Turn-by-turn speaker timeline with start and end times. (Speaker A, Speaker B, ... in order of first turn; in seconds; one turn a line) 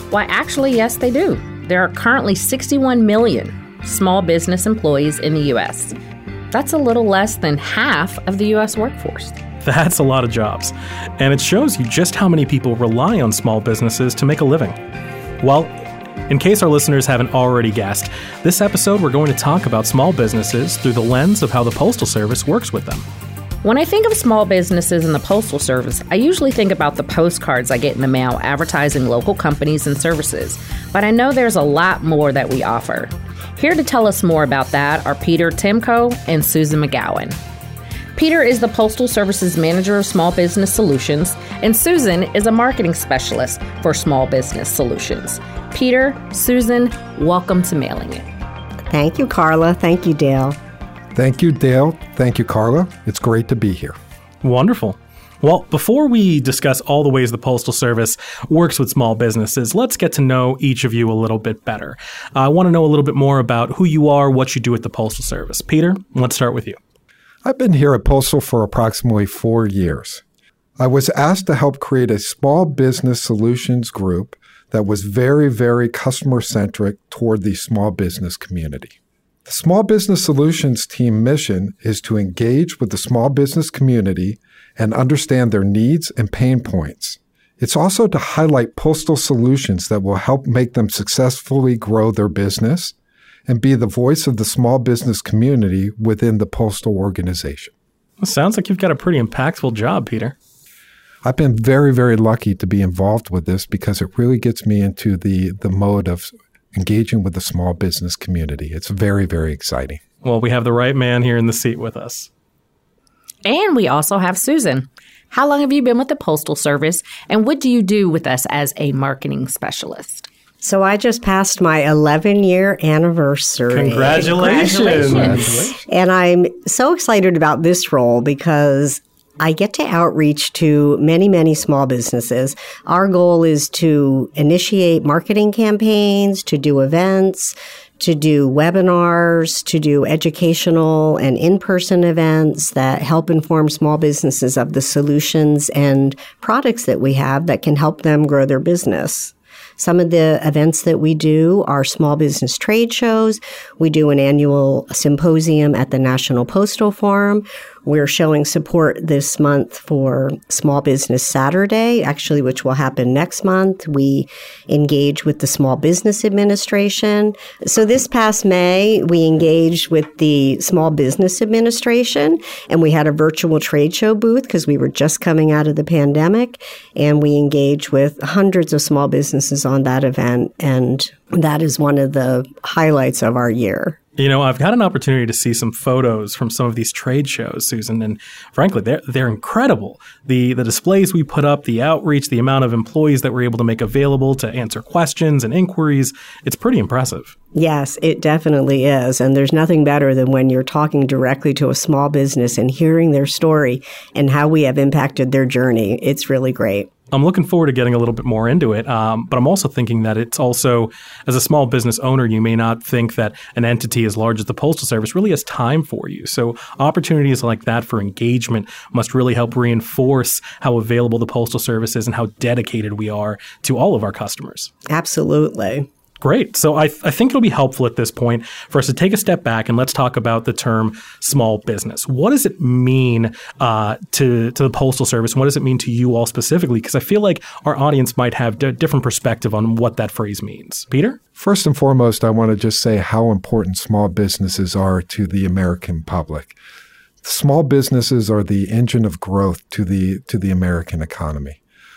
Speaker A: 0.1-5.9
Speaker A: 6.5-9.4
Speaker B: 9.6-14.8
Speaker B: 15.4-15.7
Speaker B: 16.3-23.0
Speaker A: 23.6-37.4
Speaker A: 38.1-48.2
Speaker C: 48.9-50.6
Speaker D: 51.1-53.9
Speaker B: 54.4-66.8
Speaker D: 67.4-70.2
Speaker D: 70.8-92.9
Speaker D: 93.5-97.7
Speaker B: 98.2-100.3
Speaker D: 101.2-110.0
Speaker B: 110.2-112.3
Speaker A: 113.4-120.3
Speaker C: 120.6-184.0
Speaker B: 123.7-125.7
Speaker A: 124.4-125.4
Speaker B: 184.2-197.3
Speaker C: 197.5-206.9
Speaker B: 207.1-224.7
Speaker C: 224.9-225.9
Speaker B: 226.2-241.2
Speaker D: 241.4-246.6
Speaker D: 247.2-251.6